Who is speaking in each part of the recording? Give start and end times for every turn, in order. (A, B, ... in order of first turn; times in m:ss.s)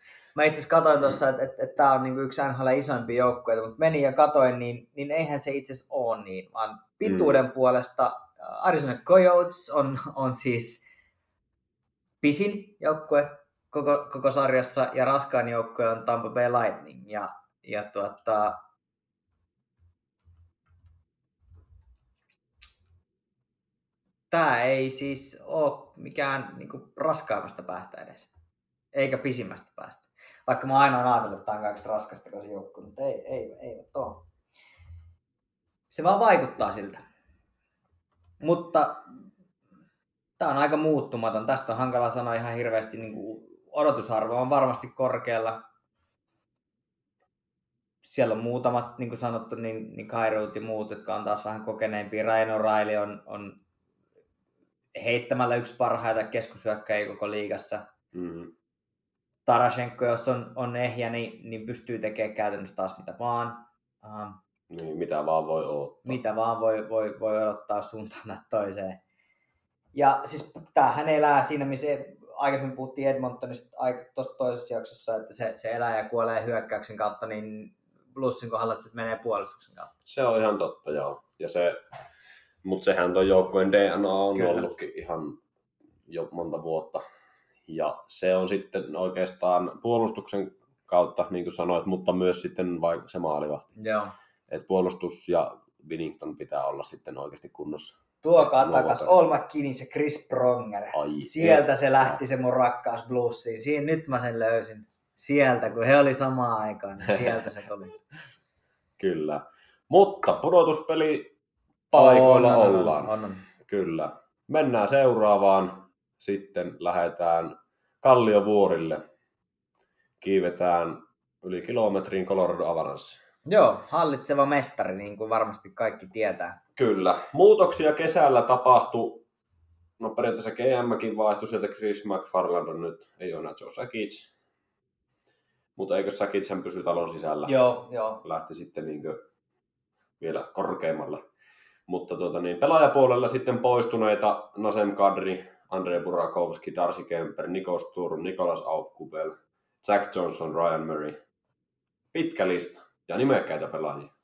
0:00.4-0:10.8 A
0:07.0-0:07.4 B
0:12.2-0:18.6 A
0:24.3-0:28.3 A
0:28.9-0:34.2 A
0:35.9-0:37.0 A
0:38.4-0:39.1 A
0:40.4-0:45.6 A
0:48.0-0:53.6 A
0:55.0-0:57.8 A
0:58.1-0:58.5 B
0:59.5-1:04.4 A
1:04.7-1:06.2 B
1:06.0-1:09.0 A
1:09.9-1:19.9 A
1:20.0-1:21.8 B
1:22.6-1:25.4 B
1:24.4-1:24.7 A
1:26.1-1:27.0 B
1:27.7-1:33.8 B
1:33.8-1:34.1 A
1:34.5-1:39.2 B
1:38.2-1:48.0 A
1:40.9-1:42.2 B
1:49.0-1:51.3 B
1:51.9-1:59.0 B
1:51.9-1:53.5 A
2:00.2-2:03.2 B
2:03.5-2:06.6 A
2:06.8-2:09.2 B
2:10.0-2:14.3 B
2:15.8-2:17.6 B
2:17.5-2:18.2 A
2:18.2-2:19.2 B
2:20.2-2:21.2 B
2:21.9-2:31.2 B
2:32.1-2:34.1 B